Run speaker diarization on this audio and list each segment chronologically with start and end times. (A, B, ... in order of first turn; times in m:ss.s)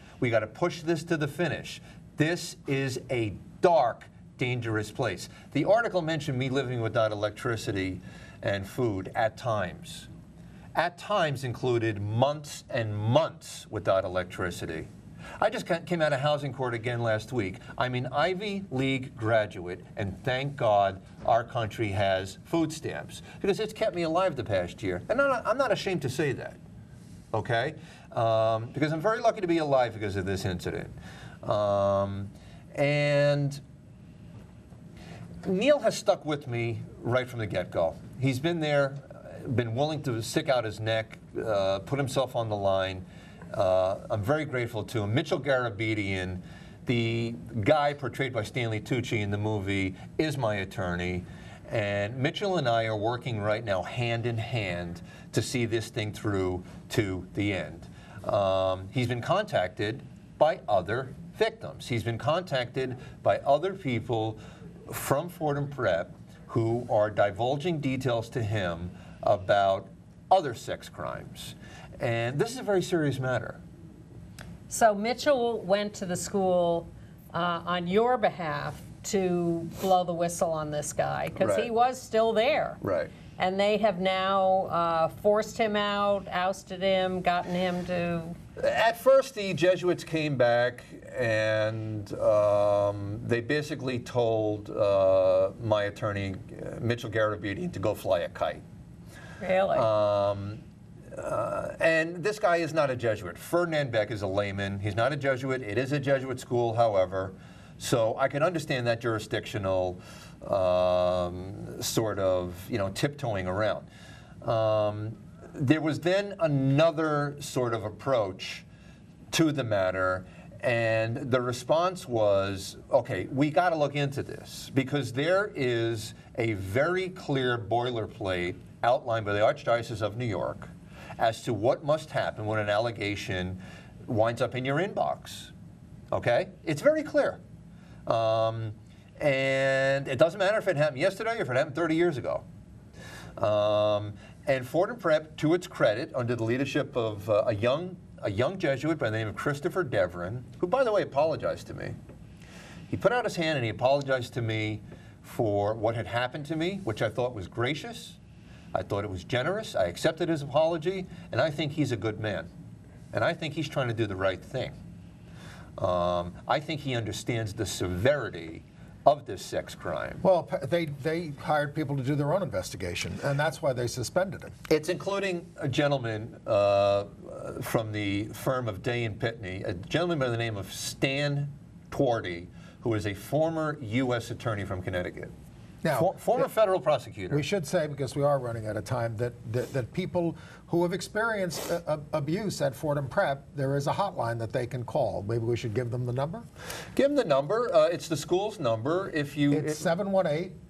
0:00.2-0:10.1 A
0:10.7-0:26.6 A
0:27.3-0:33.6 A
0:35.4-1:13.6 A
1:14.7-1:22.8 B
1:21.4-1:21.7 A
1:22.8-1:23.1 A
1:23.4-1:28.4 B
1:28.6-1:38.6 A
1:39.4-1:39.9 B
1:39.7-1:40.6 A
1:41.1-1:53.8 A
1:54.4-1:58.6 A
1:59.3-2:15.5 A
2:16.1-2:17.4 A
2:18.0-2:22.4 A
2:23.4-2:31.9 A
2:32.9-2:38.2 A
2:38.7-2:42.5 A
2:43.1-2:44.8 A
2:45.8-2:50.2 A
2:50.2-2:54.5 C
2:54.7-3:05.3 A
3:05.8-3:06.5 C
3:05.9-3:07.4 A
3:07.3-3:16.4 C
3:16.9-3:19.8 A
3:19.5-3:20.6 C